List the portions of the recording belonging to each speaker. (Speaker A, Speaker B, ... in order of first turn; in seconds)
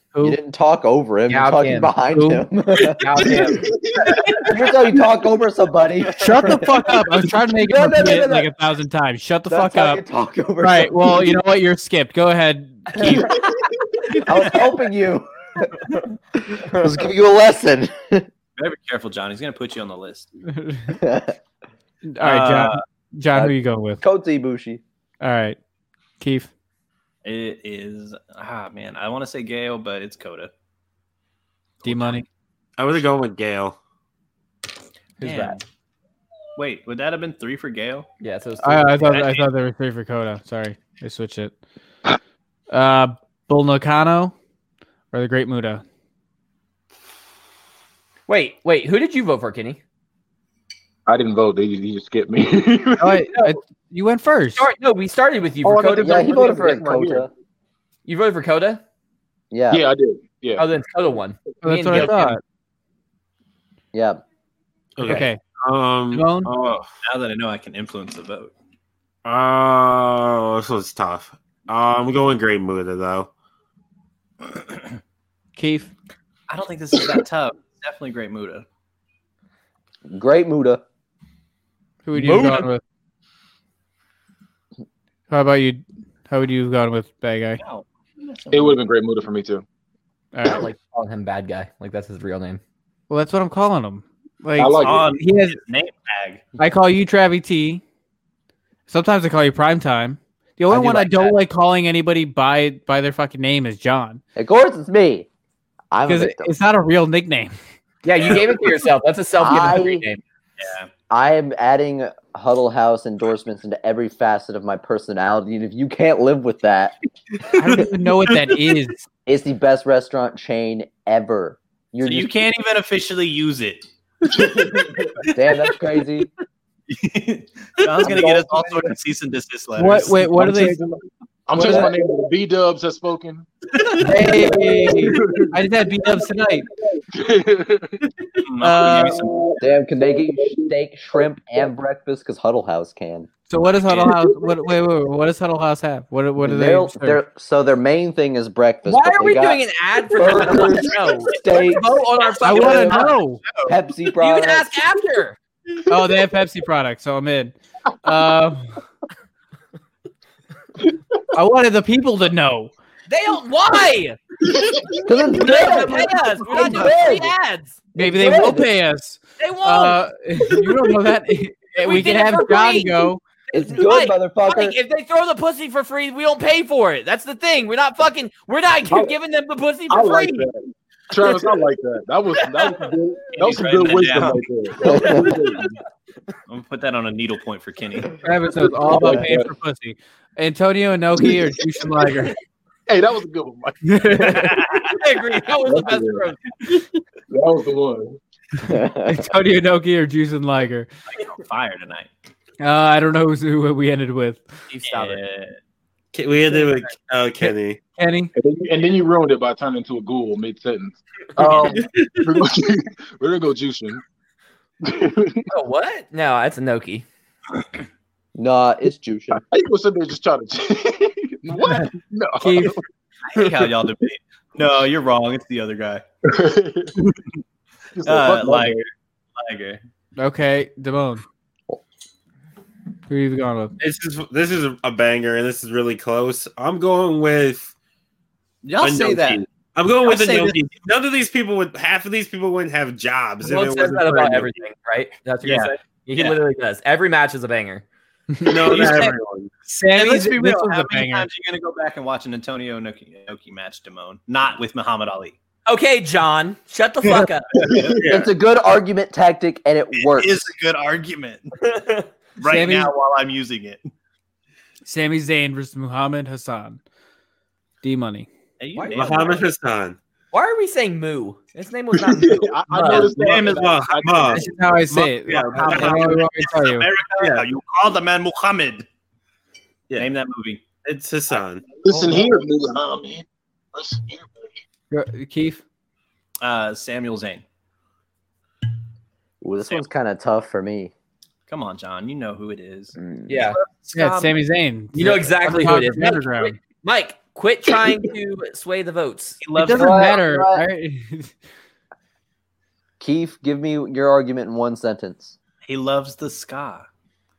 Speaker A: 0.2-3.4, 4.4-6.8, 7.5-8.5, 9.5-11.3, 14.2-15.7, 16.5-18.3, 20.9-21.4, 23.3-24.8, 56.0-57.3, 59.5-59.8, 63.9-64.2, 80.1-80.8, 104.3-105.3, 105.9-106.5, 109.4-110.0, 111.1-116.9, 119.2-122.3, 125.3-126.3, 139.6-143.3, 146.4-149.6, 150.1-153.1, 153.7-154.8, 165.0-167.3, 167.9-168.7, 173.5-174.8, 184.8-185.2, 198.6-199.3, 218.3-219.4, 258.0-260.5, 289.4-290.9, 293.0-293.3, 299.7-300.6, 303.0-305.3
Speaker B: 1.3-1.9, 2.8-4.6, 35.2-35.5, 38.2-39.5, 48.3-49.8, 54.5-56.4, 58.0-58.8, 60.6-62.4, 82.1-82.7, 90.5-92.6, 100.7-101.3, 108.0-110.2, 148.8-153.1, 154.2-155.4, 163.1-164.2, 165.2-167.8, 169.4-170.0, 171.8-180.5, 182.4-182.9, 184.9-185.7, 195.0-196.5, 204.7-205.2, 215.5-217.0, 243.4-247.8, 255.7-257.6, 261.6-262.1, 268.8-269.1, 270.3-273.2, 293.3-293.6, 294.9-299.4
Speaker C: 2.1-2.5, 6.2-10.0, 10.6-13.4, 20.5-21.0, 22.0-24.0, 25.2-25.6, 26.2-26.5, 31.8-32.2, 38.6-41.5, 42.7-44.3, 45.1-45.8, 53.0-54.6, 61.6-62.4, 65.0-65.4, 66.1-66.5, 75.5-75.9, 82.0-82.8, 85.3-87.6, 90.3-90.7, 93.1-95.6, 96.6-97.8, 98.9-104.2, 106.0-107.6, 117.5-119.1, 129.7-130.8, 131.5-131.9, 134.0-136.7, 138.6-139.2, 143.5-147.2, 152.4-153.4, 155.9-158.8, 161.3-162.7, 167.9-173.2, 188.2-192.3, 193.8-194.7, 199.1-200.9, 202.6-204.5, 207.4-208.3, 222.4-222.8, 230.2-231.2, 233.1-233.7, 248.3-251.3, 262.4-262.9, 264.9-266.8, 267.8-268.3, 274.3-276.9, 284.9-285.6, 293.9-296.5, 299.5-301.3
Speaker D: 3.2-4.2, 51.1-53.2, 55.6-57.3, 59.7-60.6, 88.5-89.6, 94.6-95.1, 124.3-125.1, 128.0-128.9, 130.3-133.5, 134.4-135.5, 137.1-138.0, 138.9-140.7, 164.4-165.0, 179.9-185.8, 188.6-189.5, 192.9-194.4, 195.6-196.3, 197.3-198.2, 208.3-214.0, 214.8-215.5, 219.3-222.8, 226.3-226.9, 227.9-228.8, 271.9-274.5, 281.8-284.2
Speaker E: 18.6-20.3, 22.2-22.8, 27.2-30.5, 31.8-32.2, 35.2-35.6, 36.5-38.1, 67.0-68.5, 76.5-78.7, 87.6-88.8, 94.8-96.4, 108.2-108.5, 110.6-110.9, 122.0-123.9, 126.9-130.7, 133.8-134.4, 138.4-139.4, 143.9-144.1, 153.4-153.7, 165.4-167.2, 183.3-185.1, 186.5-188.2, 194.2-195.1, 201.1-202.1, 204.8-205.6, 223.2-226.0, 227.0-227.4, 228.0-229.8, 238.6-239.4, 240.0-240.6, 245.4-246.4, 248.7-249.2, 249.9-255.3, 257.2-258.0, 259.9-261.5, 262.4-263.9, 268.6-269.5, 272.8-273.8, 275.2-278.9, 279.9-280.6, 286.4-287.4, 291.5-294.4, 299.4-300.2, 305.6-306.9
Speaker F: 32.8-33.8, 65.0-66.9, 69.2-73.3, 206.1-207.8, 211.4-212.4, 233.8-237.7, 238.8-244.5, 248.4-249.5, 258.0-258.3, 268.9-270.0, 273.4-276.3, 277.2-277.4, 279.9-280.1, 280.8-281.6